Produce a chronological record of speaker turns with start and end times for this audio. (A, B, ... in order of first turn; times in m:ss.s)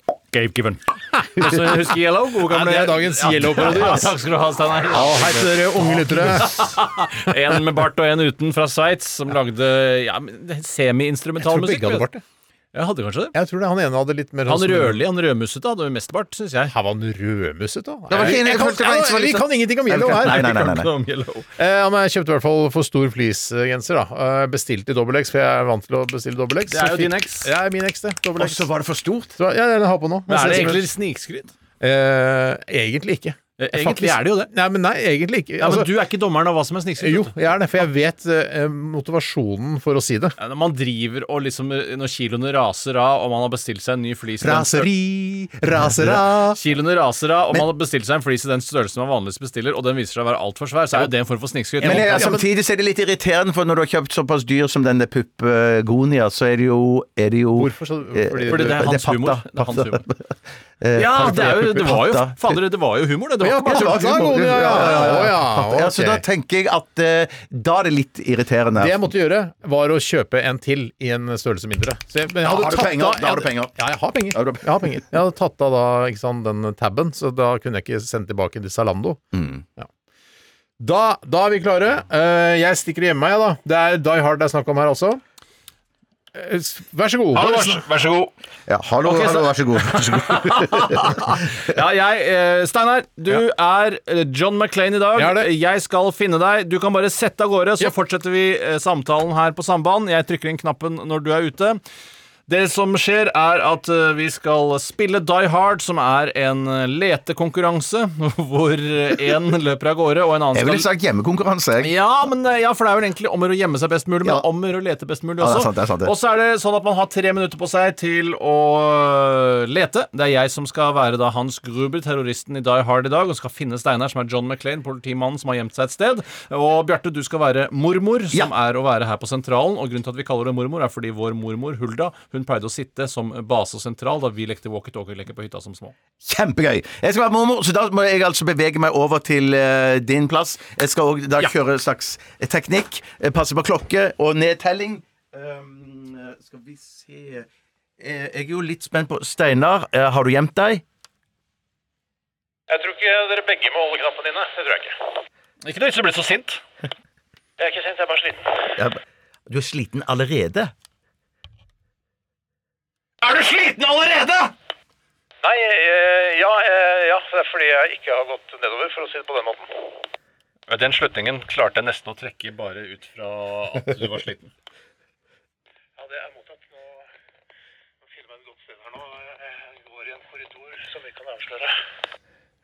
0:00.3-0:12.1 A
0:01.1-0:04.2 B
0:04.9-0:06.7 B
0:11.4-0:12.2 B
0:12.7-0:13.3 A
0:13.3-0:15.0 B
0:14.4-0:16.7 A
0:16.7-0:20.5 B
0:18.1-0:20.9 C
0:20.1-0:21.4 A
0:21.6-0:28.7 B
0:26.7-0:27.5 A
0:28.4-0:29.3 C
0:29.4-0:30.9 B
0:30.3-0:31.5 A
0:31.8-0:35.9 B
0:33.6-0:34.5 A
0:35.6-0:37.3 A
0:37.0-0:40.4 B
0:40.4-0:44.9 A
0:44.4-0:46.6 B
0:46.0-0:52.3 A
0:51.8-0:52.4 B
0:51.8-1:00.2 C
0:57.6-0:58.9 B
0:58.5-1:00.0 A
1:00.8-1:02.6 C
1:00.9-1:05.2 A
1:03.4-1:06.2 B
1:03.7-1:09.0 C
1:08.8-1:19.2 B
1:12.4-1:13.7 C
1:14.3-1:15.0 C
1:19.3-1:19.6 C
1:20.8-1:25.2 B
1:26.3-1:27.8 B
1:27.3-1:28.3 A
1:28.7-1:31.2 C
1:29.0-1:41.8 A
1:35.1-1:35.5 B
1:42.5-1:50.8 A
1:50.5-1:51.9 C
1:51.8-2:15.9 A
1:55.4-1:56.1 C
2:16.2-2:27.5 C
2:28.0-2:30.8 C
2:32.7-2:35.0 D
2:35.6-2:36.6 A
2:37.6-2:38.7 D
2:38.8-2:40.7 C
2:43.2-2:44.5 A
2:45.4-2:50.0 D
2:50.7-2:54.5 A
2:56.0-2:57.0 D
2:58.1-3:01.7 D